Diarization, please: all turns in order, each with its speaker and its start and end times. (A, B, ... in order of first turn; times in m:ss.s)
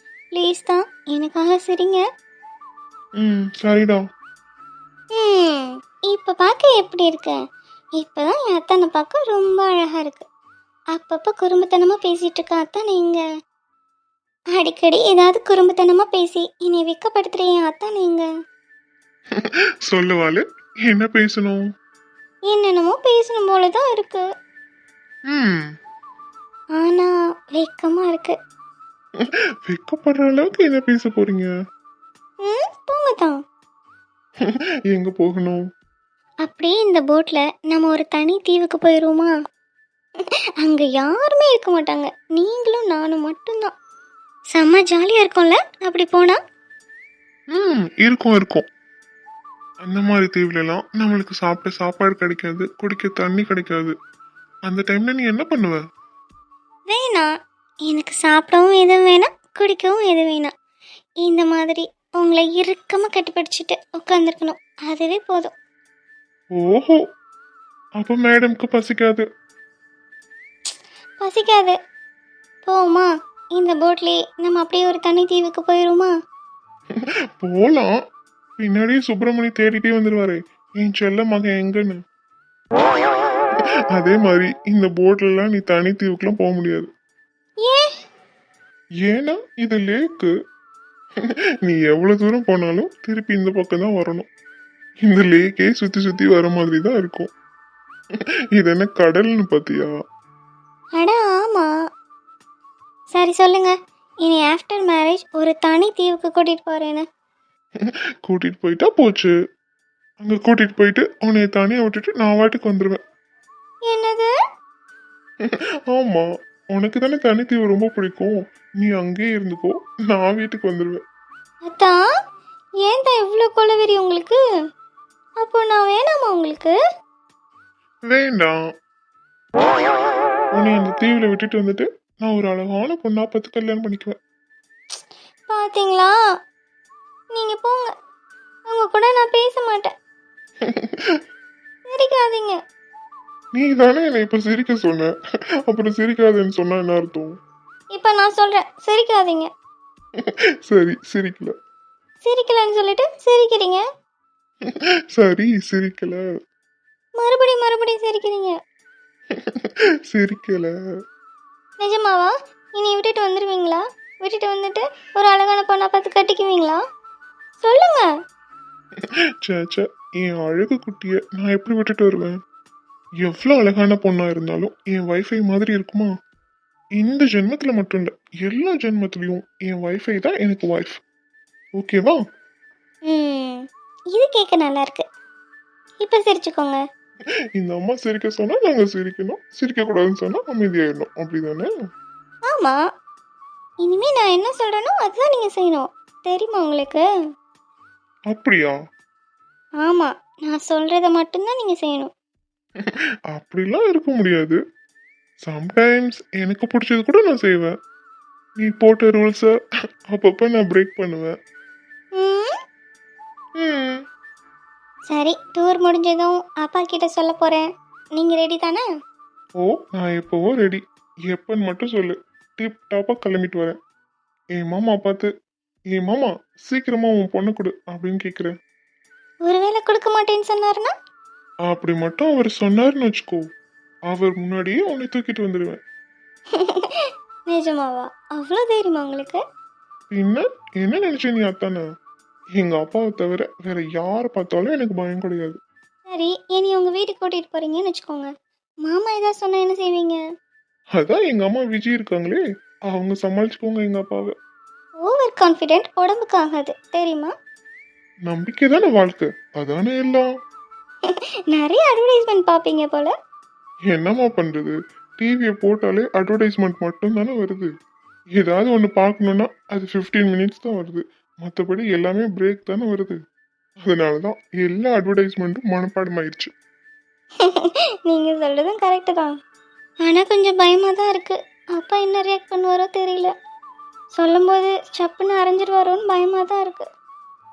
0:00.3-0:02.0 A
0:03.2-0:04.0 B
0:05.1-0:07.4 A
0:08.0-0:10.2 A
0:10.9-0:13.2 A
0:14.5-0:18.3 A
0:19.9-0:21.6 B
0:22.5-0:24.2 A
0:25.3-0:25.6 B
0:26.8-0:28.4 A
0:29.7-0:31.5 B
0:32.4-0:33.4 A
0:34.9-0:35.6 B
0:36.4-0:39.3 A
0:40.2-0:43.7 A
0:44.5-0:46.4 A
0:47.6-0:48.6 B
0:49.8-0:53.9 B
0:54.7-0:55.8 B
0:56.9-0:57.3 A
0:57.9-1:00.5 A
1:01.2-1:05.5 A
1:06.6-1:07.0 B
1:08.0-1:09.2 B
1:11.2-1:11.8 A
1:12.6-1:16.1 A
1:17.4-1:17.9 B
1:18.6-1:22.0 B
1:24.0-1:26.9 B
1:27.6-1:27.9 A
1:29.1-1:30.3 B
1:31.7-1:34.3 B
1:35.1-1:37.3 B
1:38.6-1:39.9 B
1:40.9-1:41.7 A
1:43.1-1:47.0 A
1:48.3-1:49.3 B
1:50.2-1:53.0 B
1:53.8-1:54.3 A
1:55.9-1:56.2 B
1:56.8-2:01.0 B
2:01.6-2:02.0 A
2:02.8-2:04.4 A
2:05.4-2:06.8 A
2:08.1-2:08.5 B
2:10.6-2:14.2 B
2:15.5-2:16.1 A
2:17.3-2:17.9 A
2:18.7-2:19.9 A
2:21.9-2:22.6 A
2:23.6-2:25.1 B
2:25.7-2:27.3 B
2:27.9-2:29.5 A
2:30.7-2:31.5 B
2:32.2-2:33.8 A
2:35.2-2:36.2 B
2:37.2-2:38.6 A
2:40.1-2:40.7 B
2:41.8-2:46.8 A
2:47.6-2:48.1 A
2:49.5-2:52.4 B
2:53.2-2:56.1 B
2:57.0-3:01.0 B
3:01.8-3:02.2 B
3:03.0-3:05.0 A
3:06.0-3:06.8 A
3:07.6-3:11.7 B
3:12.5-3:12.8 A
3:13.8-3:17.0 A
3:18.3-3:18.7 B
3:19.8-3:22.1 A
3:23.4-3:24.6 B
3:25.5-3:27.7 B
3:28.6-3:29.5 B
3:30.1-3:31.3 B
3:32.1-3:32.5 A
3:33.6-3:34.0 B
3:35.1-3:38.8 A
3:39.6-3:40.8 B
3:41.3-3:43.8 B
3:44.6-3:45.2 B
3:46.0-3:48.5 B
3:49.4-3:50.9 A
3:51.7-3:53.4 B
3:54.1-3:55.8 B
3:56.5-3:59.4 A
4:00.1-4:01.8 B
4:02.6-4:05.6 B
4:06.1-4:08.3 A
4:08.8-4:10.2 A
4:11.0-4:12.4 B
4:12.9-4:14.3 B
4:15.0-4:17.3 A
4:18.3-4:20.2 B
4:21.0-4:23.1 A
4:23.9-4:27.7 B
4:28.4-4:33.2 B
4:33.9-4:36.5 B
4:37.4-4:39.3 A
4:40.0-4:43.3 A
4:44.1-4:46.9 A